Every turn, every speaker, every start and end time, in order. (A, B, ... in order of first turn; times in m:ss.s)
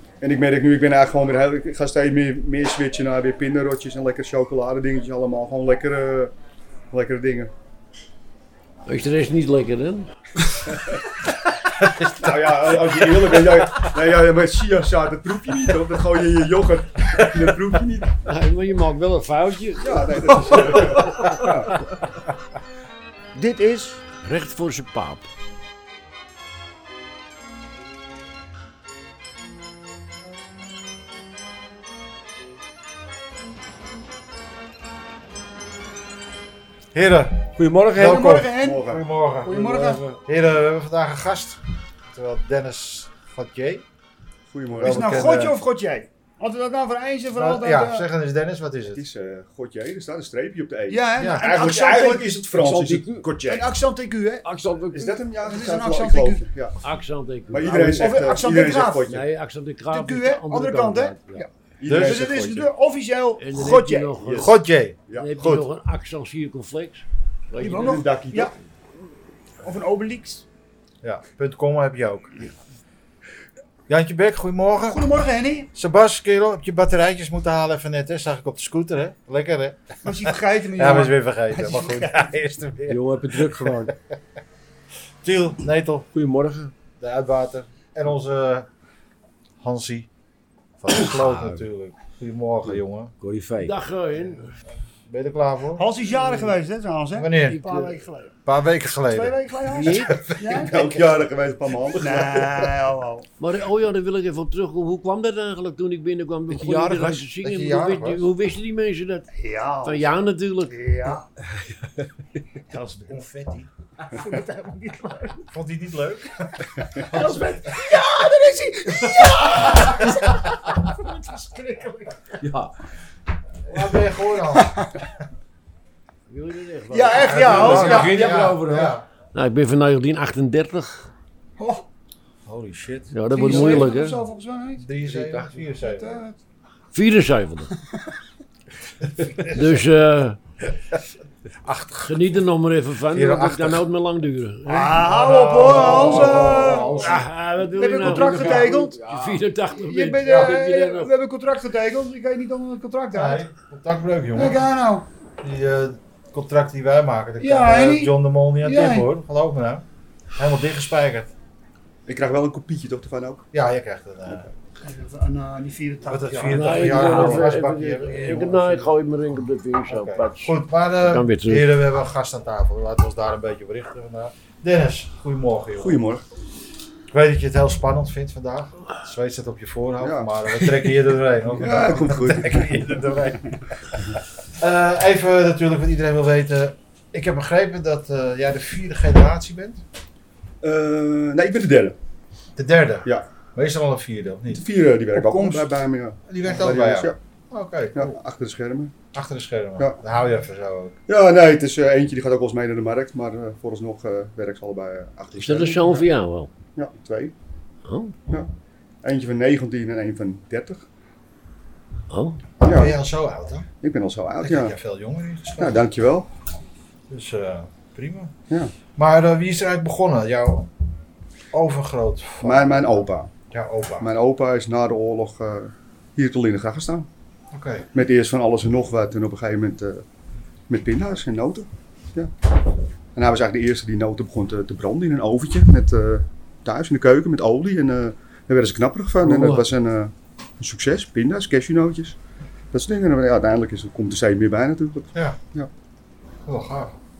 0:00.2-0:06.3 A
0:06.9-0:07.5 A
0:08.8-0:10.1 B
0:10.7-0:11.0 A
0:11.8-0:12.5 C
0:12.0-0:18.2 A
0:13.2-0:13.5 C
0:18.2-0:21.3 B
0:19.8-0:21.7 A
0:23.3-0:24.0 D
0:24.2-0:25.3 B
0:36.9-0:41.6 C
0:37.6-0:38.2 E
0:38.0-0:38.9 D
0:38.6-0:39.0 A
0:39.4-0:40.1 D
0:42.1-0:43.8 C
0:44.5-0:45.2 A
0:44.8-0:45.6 C
0:44.8-0:48.0 D
0:47.3-0:49.0 C
0:48.9-0:53.7 A
0:50.9-0:52.4 D
0:51.2-0:51.5 C
0:52.5-0:53.4 E
0:53.4-0:56.4 D
0:54.4-0:55.1 E
0:54.9-0:56.8 A
0:56.8-0:58.3 B
0:57.5-0:59.3 A
0:58.0-0:59.1 D
0:59.1-1:01.4 B
0:59.9-1:04.1 D
1:01.4-1:02.7 A
1:01.8-1:02.3 C
1:03.4-1:04.6 B
1:04.2-1:05.3 A
1:04.3-1:05.6 C
1:05.1-1:08.0 B
1:07.6-1:08.5 D
1:07.8-1:08.5 A
1:09.6-1:10.4 D
1:11.0-1:12.4 C
1:13.9-1:15.0 C
1:14.8-1:15.7 D
1:15.7-1:23.9 C
1:20.0-1:22.3 D
1:22.9-1:23.9 E
1:25.2-1:26.1 C
1:26.1-1:26.7 E
1:27.0-1:28.7 C
1:29.6-1:30.1 C
1:30.8-1:33.1 C
1:31.1-1:31.6 E
1:33.2-1:33.8 E
1:33.6-1:34.5 B
1:35.1-1:35.9 C
1:35.8-1:38.3 D
1:36.2-1:36.5 B
1:37.1-1:37.8 C
1:37.6-1:37.9 B
1:38.4-1:40.6 C
1:39.1-1:40.9 D
1:39.6-1:40.2 B
1:40.5-1:42.6 A
1:42.0-1:43.3 D
1:43.4-1:50.8 B
1:46.5-1:47.3 E
1:47.4-1:48.2 C
1:49.4-1:51.3 D
1:52.7-1:53.7 C
1:54.0-1:55.5 D
1:55.5-1:57.6 C
1:56.9-2:02.4 D
2:02.4-2:02.7 E
2:03.6-2:04.8 C
2:04.6-2:04.8 D
2:06.3-2:08.4 B
2:06.9-2:08.5 D
2:07.1-2:09.0 C
2:07.6-2:09.0 E
2:09.3-2:11.1 B
2:11.6-2:11.8 D
2:12.4-2:14.1 C
2:13.1-2:14.2 B
2:13.3-2:14.8 D
2:14.8-2:16.2 C
2:15.0-2:15.6 E
2:15.7-2:16.4 D
2:16.9-2:17.7 B
2:19.4-2:20.4 B
2:21.7-2:31.1 B
2:23.1-2:23.8 C
2:24.7-2:29.0 D
2:25.0-2:27.2 C
2:25.7-2:27.2 E
2:28.0-2:29.4 E
2:29.7-2:33.4 D
2:30.2-2:30.6 C
2:33.1-2:34.6 C
2:34.3-2:35.1 D
2:35.4-2:39.8 C
2:37.4-2:39.1 D
2:40.4-2:41.3 C
2:42.1-2:43.5 A
2:43.5-2:44.5 C
2:44.8-2:47.5 D
2:46.0-2:48.9 C
2:46.4-2:51.7 B
2:49.9-2:56.0 C
2:55.8-2:56.2 A
2:57.1-3:04.0 C
3:00.0-3:00.3 A
3:01.5-3:03.0 A
3:04.6-3:09.8 C
3:10.6-3:12.0 A
3:12.6-3:14.6 C
3:14.5-3:17.2 A
3:16.3-3:18.1 C
3:17.9-3:18.9 A
3:19.1-3:21.0 C
3:21.1-3:26.0 A
3:25.4-3:26.5 B
3:26.8-3:27.3 A
3:27.8-3:28.2 B
3:29.0-3:30.8 A
3:32.1-3:32.4 B
3:32.6-3:33.0 A
3:32.6-3:33.7 C
3:33.8-3:34.7 A
3:34.4-3:35.8 C
3:35.6-3:36.3 A
3:37.1-3:38.3 C
3:39.0-3:40.7 C
3:41.5-3:42.9 C
3:42.4-3:43.3 A
3:43.5-3:44.1 C
3:44.0-3:47.1 A
3:47.5-3:47.9 C
3:47.9-3:50.0 A
3:50.7-3:52.3 A
3:53.1-4:02.2 A
3:59.2-3:59.6 E
4:02.7-4:05.7 A
4:06.4-4:07.0 C